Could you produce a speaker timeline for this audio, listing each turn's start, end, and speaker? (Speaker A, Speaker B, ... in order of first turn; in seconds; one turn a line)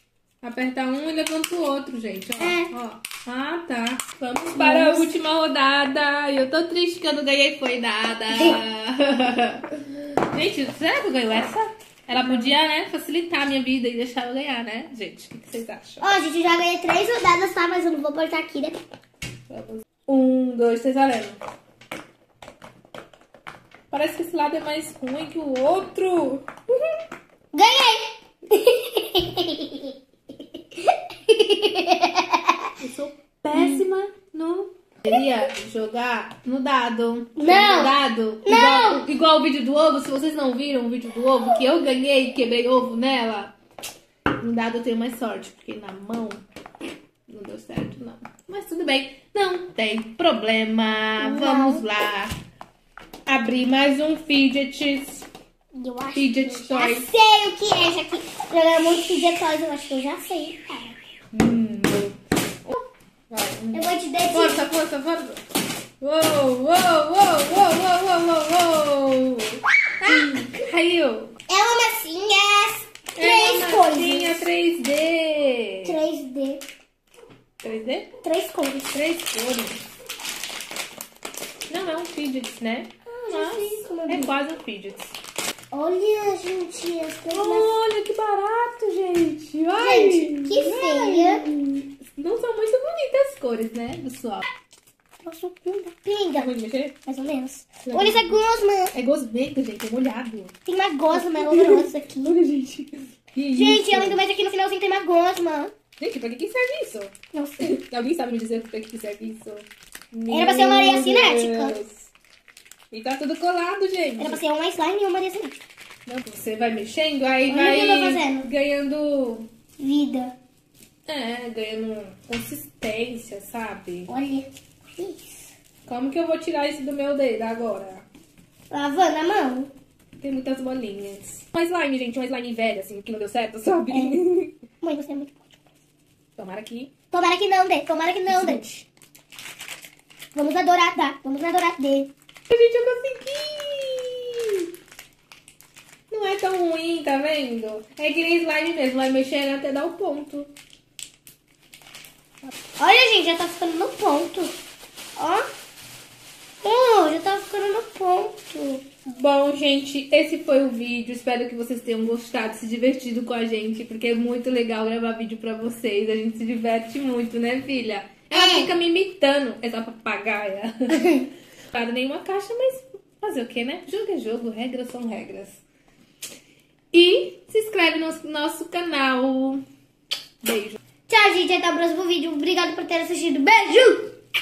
Speaker A: 0.4-16.0
Speaker B: 2.4-2.7
Speaker B: 4.5-5.1
Speaker B: 16.0-18.8
Speaker A: 19.5-21.4
Speaker A: 23.9-26.5
Speaker B: 27.5-29.9
Speaker B: 30.8-32.5
Speaker A: 32.8-43.5
Speaker B: 33.5-33.8
Speaker B: 37.4-39.0
Speaker A: 44.4-46.4
Speaker A: 47.3-52.3
Speaker B: 51.2-51.8
Speaker A: 53.2-55.3
Speaker B: 55.7-61.0
Speaker A: 56.1-57.1
Speaker A: 61.3-62.8
Speaker A: 63.3-65.4
Speaker B: 63.7-64.7
Speaker A: 66.0-71.3
Speaker B: 71.5-74.4
Speaker A: 73.2-76.0
Speaker B: 75.8-76.6
Speaker A: 77.6-78.1
Speaker B: 78.2-79.0
Speaker A: 78.9-79.8
Speaker A: 81.7-85.1
Speaker B: 83.1-84.3
Speaker B: 85.7-87.7
Speaker A: 87.3-94.5
Speaker B: 89.7-91.5
Speaker B: 95.2-96.5
Speaker A: 96.4-96.9
Speaker B: 97.0-98.9
Speaker A: 97.8-98.4
Speaker A: 98.9-100.5
Speaker B: 100.7-102.4
Speaker A: 101.1-104.2
Speaker B: 103.5-105.7
Speaker A: 106.0-112.1
Speaker B: 107.3-107.7
Speaker B: 110.3-111.8
Speaker A: 112.9-114.4
Speaker B: 114.2-115.5
Speaker A: 116.0-119.5
Speaker B: 117.5-118.5
Speaker B: 119.8-120.3
Speaker A: 121.1-124.1
Speaker B: 124.1-125.5
Speaker A: 125.8-128.0
Speaker B: 128.7-129.7
Speaker A: 130.2-134.5
Speaker B: 133.9-134.2
Speaker B: 134.8-135.4
Speaker A: 136.4-136.9
Speaker B: 137.1-138.8
Speaker A: 138.3-138.7
Speaker B: 140.3-142.1
Speaker A: 142.5-144.7
Speaker A: 146.1-150.5
Speaker B: 152.8-154.5
Speaker B: 155.2-155.4
Speaker B: 156.6-158.8
Speaker A: 159.1-175.6
Speaker B: 168.3-168.7
Speaker A: 176.9-179.6
Speaker A: 180.4-180.8
Speaker B: 181.1-184.1